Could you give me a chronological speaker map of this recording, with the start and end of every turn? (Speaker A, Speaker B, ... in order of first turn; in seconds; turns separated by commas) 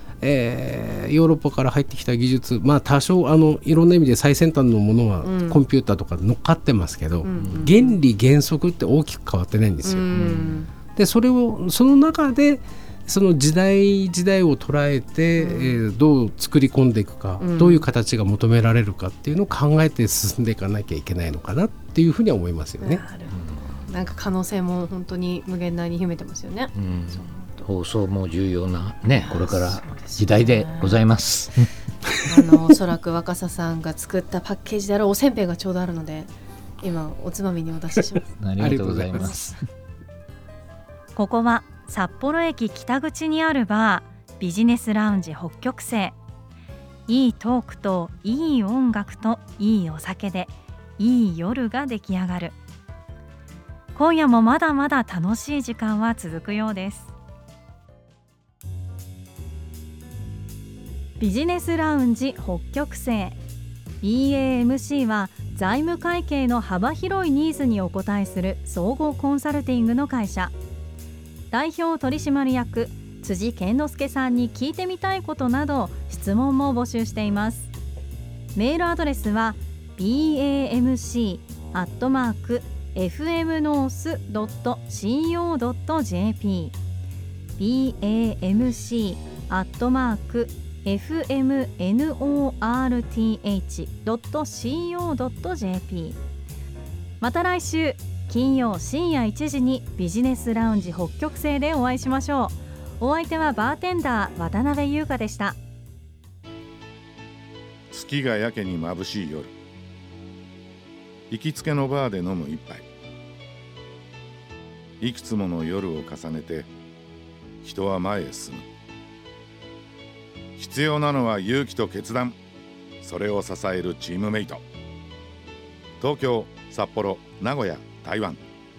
Speaker A: 0.2-10.1, Speaker B: 5.2-5.6, Speaker B: 7.2-8.0, Speaker B: 9.8-10.7, Speaker C: 10.1-10.6, Speaker A: 10.9-23.1, Speaker B: 15.4-15.8, Speaker B: 17.4-17.9, Speaker B: 22.8-27.6, Speaker C: 23.3-23.8, Speaker C: 26.8-31.7, Speaker B: 29.2-31.0, Speaker B: 32.3-36.3, Speaker B: 36.8-38.2, Speaker C: 38.4-39.4, Speaker A: 38.6-39.6, Speaker D: 41.1-46.2, Speaker D: 47.1-52.6, Speaker D: 54.0-57.1, Speaker D: 61.2-63.4, Speaker D: 64.0-70.5, Speaker D: 71.5-77.7, Speaker D: 78.5-86.8, Speaker D: 87.6-96.2, Speaker D: 97.2-105.6, Speaker E: 107.9-109.5, Speaker E: 111.3-112.8, Speaker E: 115.0-116.7, Speaker E: 117.6-118.6, Speaker E: 120.6-122.4, Speaker E: 123.0-124.6, Speaker E: 126.0-128.4